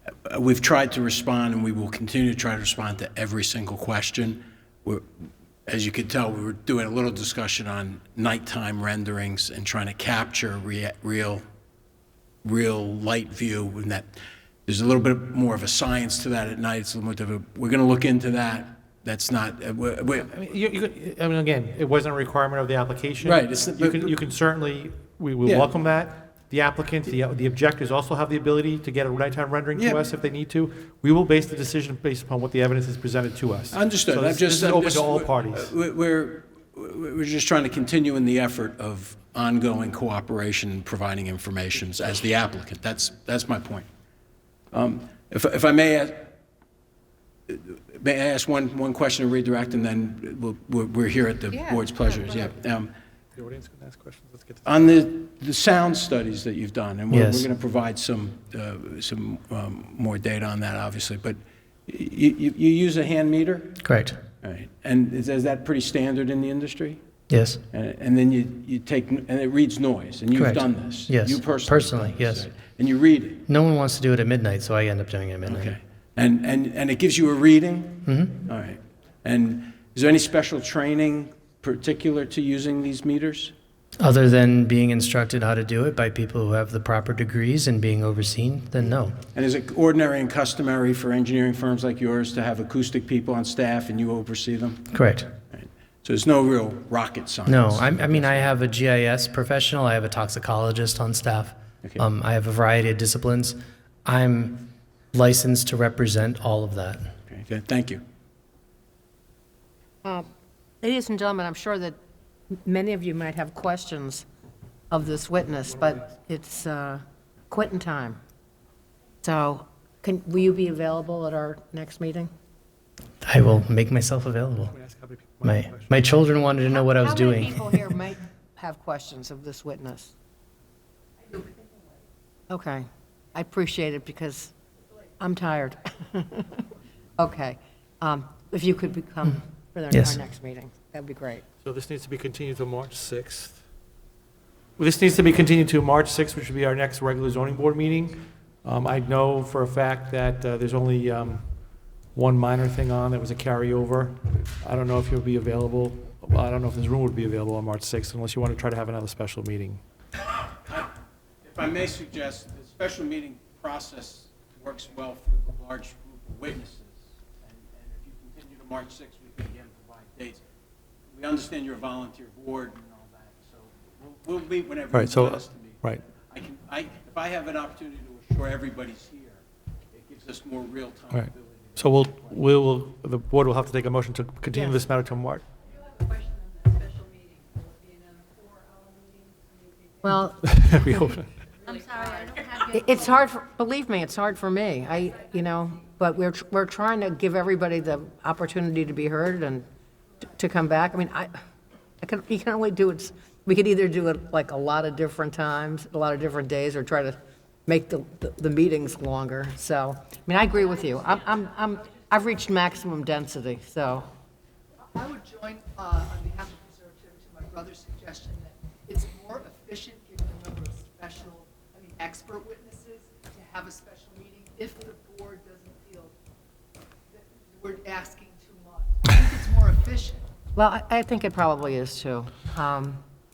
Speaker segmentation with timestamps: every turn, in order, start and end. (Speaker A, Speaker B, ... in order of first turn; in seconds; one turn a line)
Speaker A: 0.2-11.4
Speaker A: 12.4-14.1
Speaker A: 14.7-20.3
Speaker B: 20.2-35.7
Speaker A: 23.2-24.2
Speaker A: 25.4-25.7
Speaker A: 29.7-30.0
Speaker A: 33.7-43.9
Speaker A: 44.7-46.4
Speaker A: 47.5-52.9
Speaker C: 51.5-52.5
Speaker B: 53.4-54.9
Speaker A: 54.6-63.8
Speaker D: 57.1-57.5
Speaker D: 63.8-64.2
Speaker A: 64.4-67.0
Speaker D: 67.3-67.6
Speaker A: 67.7-73.4
Speaker D: 70.3-72.5
Speaker D: 73.5-75.7
Speaker A: 75.4-83.5
Speaker D: 78.0-78.4
Speaker D: 84.0-89.2
Speaker A: 89.3-94.9
Speaker D: 94.9-95.3
Speaker A: 95.5-98.5
Speaker D: 97.5-107.1
Speaker A: 107.3-108.0
Speaker C: 110.0-110.3
Speaker C: 110.8-112.0
Speaker C: 112.6-114.2
Speaker C: 114.9-118.2
Speaker C: 119.2-122.3
Speaker D: 123.2-124.7
Speaker B: 124.7-126.0
Speaker D: 125.4-127.8
Speaker C: 126.9-130.1
Speaker C: 132.5-134.5
Speaker C: 135.2-136.6
Speaker C: 137.2-141.4
Speaker D: 139.9-140.2
Speaker B: 141.6-143.6
Speaker B: 144.8-151.4
Speaker B: 152.1-159.8
Speaker A: 161.4-170.4
Speaker A: 171.1-182.4
Speaker B: 174.9-176.0
Speaker B: 181.1-185.4
Speaker E: 185.7-190.1
Speaker C: 190.0-191.0
Speaker B: 190.4-191.4
Speaker E: 191.7-192.4
Speaker C: 192.4-199.7
Speaker C: 200.3-201.3
Speaker C: 202.0-214.1
Speaker F: 214.9-226.1
Speaker F: 227.1-230.2
Speaker C: 230.5-233.0